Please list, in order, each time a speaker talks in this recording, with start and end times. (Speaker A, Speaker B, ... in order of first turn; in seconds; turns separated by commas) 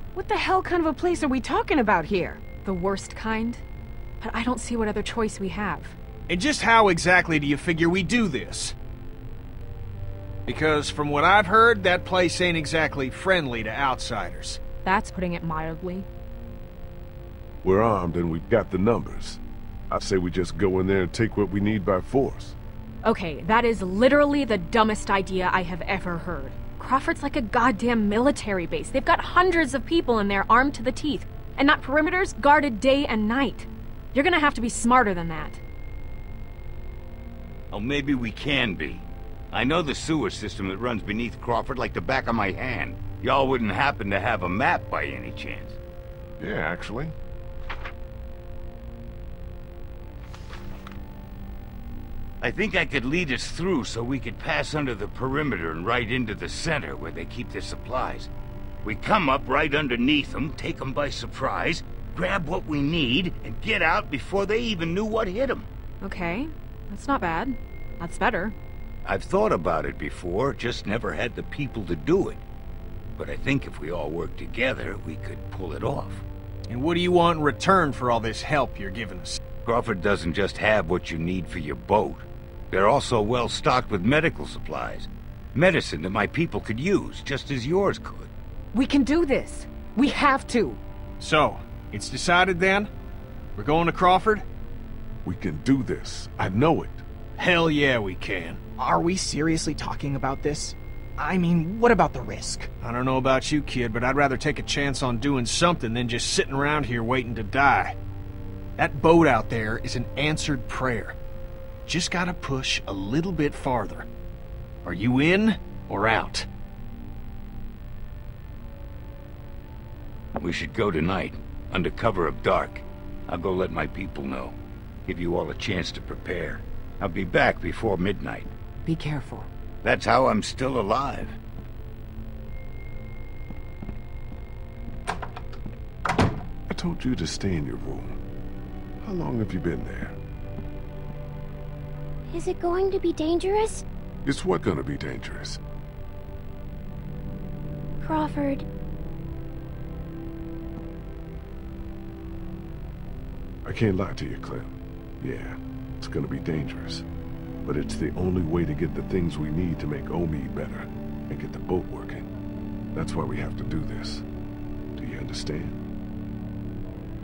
Speaker A: 0.1-2.4, Speaker B: 2.6-3.6, Speaker B: 4.2-6.0, Speaker C: 6.3-8.7, Speaker C: 10.4-14.6, Speaker B: 14.8-16.1, Speaker D: 17.6-22.6, Speaker B: 23.0-35.6, Speaker E: 37.7-45.8, Speaker D: 46.4-47.1, Speaker E: 52.4-58.3, Speaker E: 58.8-65.7, Speaker B: 66.0-68.5, Speaker E: 69.0-72.4, Speaker E: 73.2-76.2, Speaker C: 76.7-79.4, Speaker E: 79.6-88.3, Speaker A: 88.7-90.8, Speaker C: 91.2-92.9, Speaker C: 93.5-94.4, Speaker D: 95.2-97.0, Speaker C: 97.4-98.6, Speaker F: 98.8-102.7, Speaker C: 102.8-108.0, Speaker C: 108.8-111.2, Speaker C: 111.8-114.1, Speaker C: 114.8-116.5, Speaker E: 120.4-128.5, Speaker A: 128.8-129.5, Speaker E: 129.8-131.3, Speaker D: 136.7-138.2, Speaker D: 139.0-140.2, Speaker G: 142.3-143.8, Speaker D: 144.2-145.6, Speaker G: 148.0-148.6, Speaker D: 153.6-157.1, Speaker D: 157.6-162.3, Speaker D: 162.9-164.2, Speaker D: 164.9-165.8